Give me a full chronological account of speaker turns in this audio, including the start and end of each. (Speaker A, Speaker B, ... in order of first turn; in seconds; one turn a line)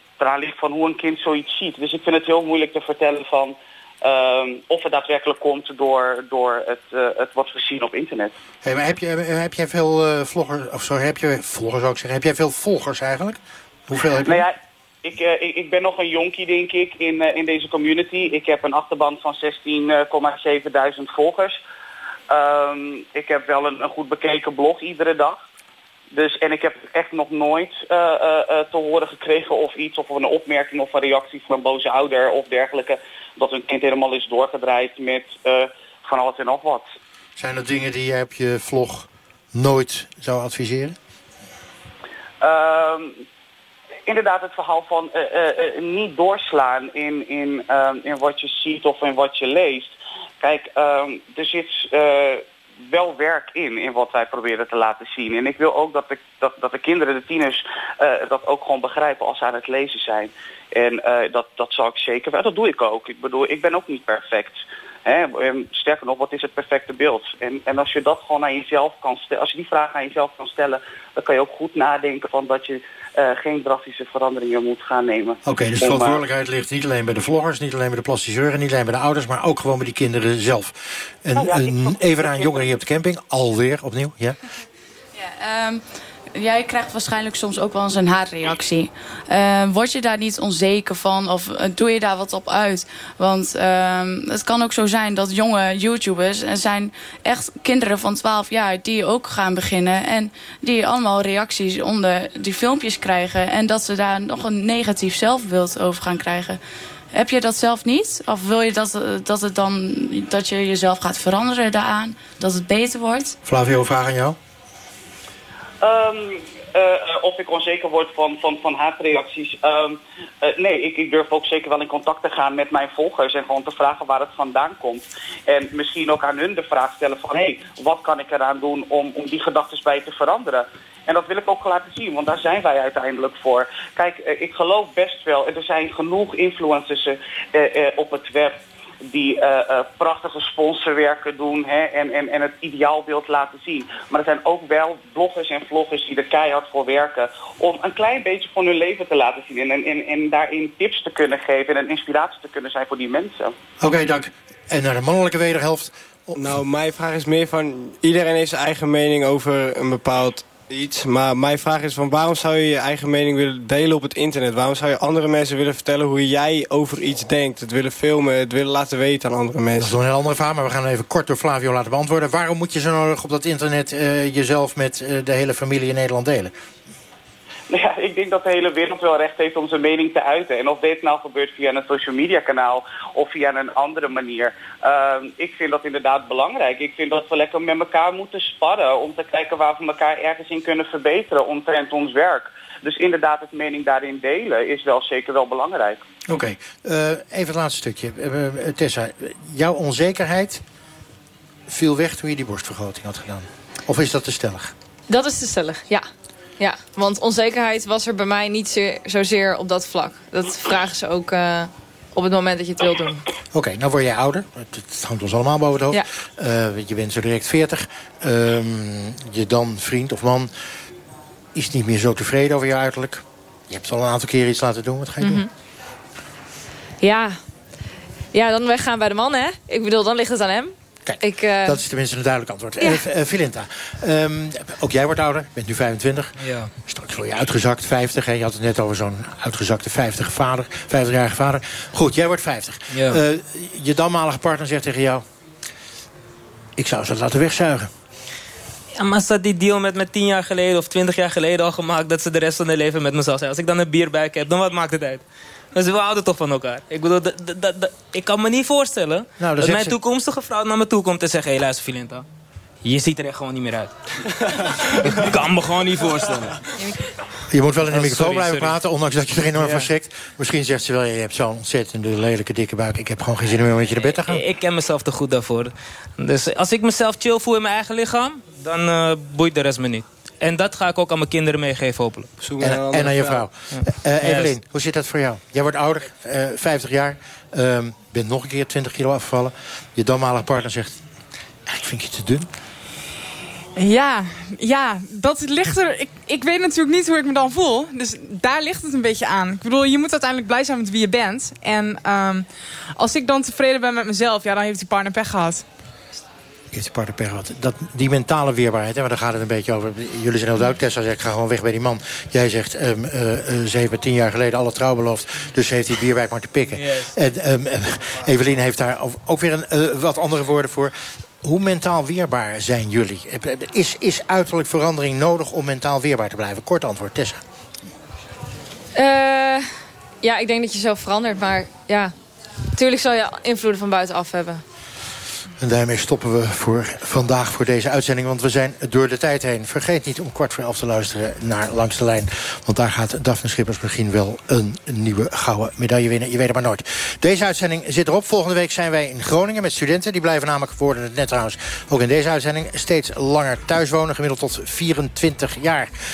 Speaker A: 0.2-8.3
Speaker B: 8.6-14.4
Speaker A: 14.2-21.6
Speaker A: 22.3-25.4
Speaker A: 26.1-36.8
Speaker B: 37.4-41.0
Speaker A: 42.4-43.1
Speaker A: 44.1-76.2
Speaker B: 75.4-84.4
Speaker A: 81.3-82.6
Speaker C: 85.2-85.8
Speaker C: 86.3-106.6
Speaker C: 107.1-113.4
Speaker B: 113.4-114.3
Speaker A: 115.8-138.6
Speaker A: 139.1-153.5
Speaker B: 153.8-156.4
Speaker D: 156.4-170.0
Speaker B: 169.8-176.5
Speaker A: 177.7-196.0
Speaker B: 196.3-200.6
Speaker B: 201.7-204.7
Speaker E: 205.1-206.1
Speaker E: 206.6-213.2
Speaker B: 213.5-220.5
Speaker B: 221.5-225.4
Speaker E: 225.2-225.5
Speaker E: 227.0-227.4
Speaker E: 228.3-231.8
Speaker B: 231.1-245.2
Speaker F: 236.4-236.7
Speaker F: 242.9-243.2
Speaker B: 246.8-247.9
Speaker F: 249.0-255.2
Speaker F: 255.7-262.2
Speaker B: 259.4-260.0
Speaker F: 262.8-263.9
Speaker F: 264.9-266.5
Speaker B: 267.5-274.4
Speaker F: 267.8-268.8
Speaker D: 269.6-269.8
Speaker F: 274.0-282.3
Speaker D: 282.4-283.4
Speaker B: 282.6-291.0
Speaker F: 283.7-284.5
Speaker B: 291.7-292.5
Speaker G: 293.8-302.4
Speaker G: 303.0-305.6
Speaker B: 306.7-327.4
Speaker F: 316.7-317.1
Speaker E: 328.9-329.7
Speaker E: 330.2-332.1
Speaker E: 332.7-334.6
Speaker B: 335.6-355.9